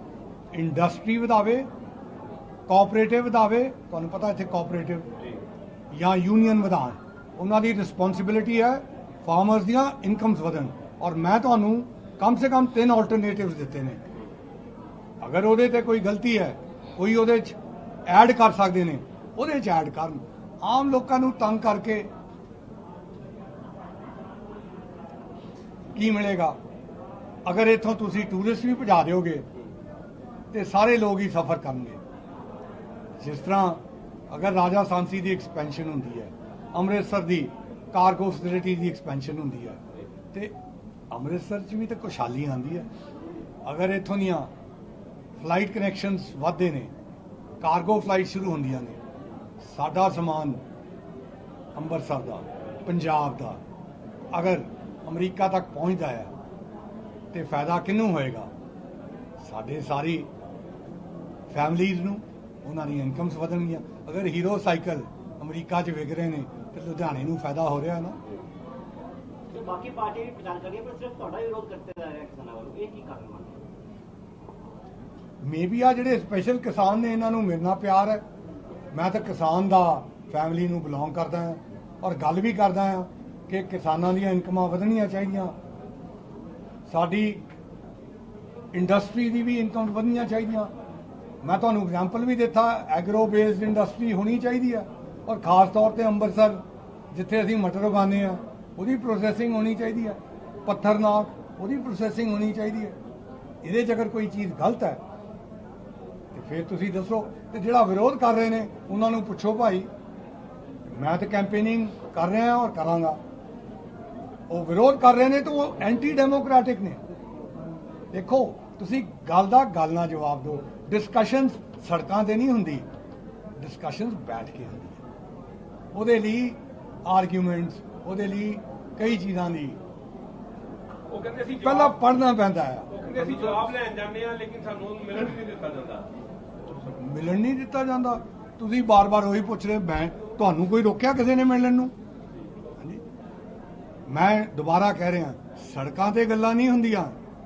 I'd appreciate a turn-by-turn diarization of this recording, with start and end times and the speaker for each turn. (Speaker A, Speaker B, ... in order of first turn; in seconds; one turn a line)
Speaker A: 0.5-1.7
Speaker A: 2.7-5.1
Speaker A: 5.9-14.1
Speaker A: 15.2-22.1
Speaker A: 25.9-26.6
Speaker A: 27.4-29.4
Speaker A: 30.5-32.0
Speaker A: 33.2-40.5
Speaker A: 41.1-42.9
Speaker A: 43.6-44.5
Speaker A: 45.4-46.9
Speaker A: 47.6-49.0
Speaker A: 49.6-50.6
Speaker A: 51.7-53.6
Speaker A: 54.3-56.3
Speaker A: 57.3-58.5
Speaker A: 59.4-60.3
Speaker A: 61.5-68.2
Speaker B: 69.5-73.6
Speaker A: 75.4-78.2
Speaker A: 78.9-85.5
Speaker A: 86.9-87.4
Speaker A: 88.7-90.7
Speaker A: 91.4-103.0
Speaker A: 103.6-105.0
Speaker A: 106.3-109.9
Speaker A: 110.9-113.2
Speaker A: 114.5-117.0
Speaker A: 118.1-122.8
Speaker A: 123.5-125.0
Speaker A: 125.9-129.8
Speaker C: 131.1-131.8
Speaker A: 131.5-133.1
Speaker C: 132.9-136.1
Speaker A: 136.8-141.9
Speaker A: 144.1-147.2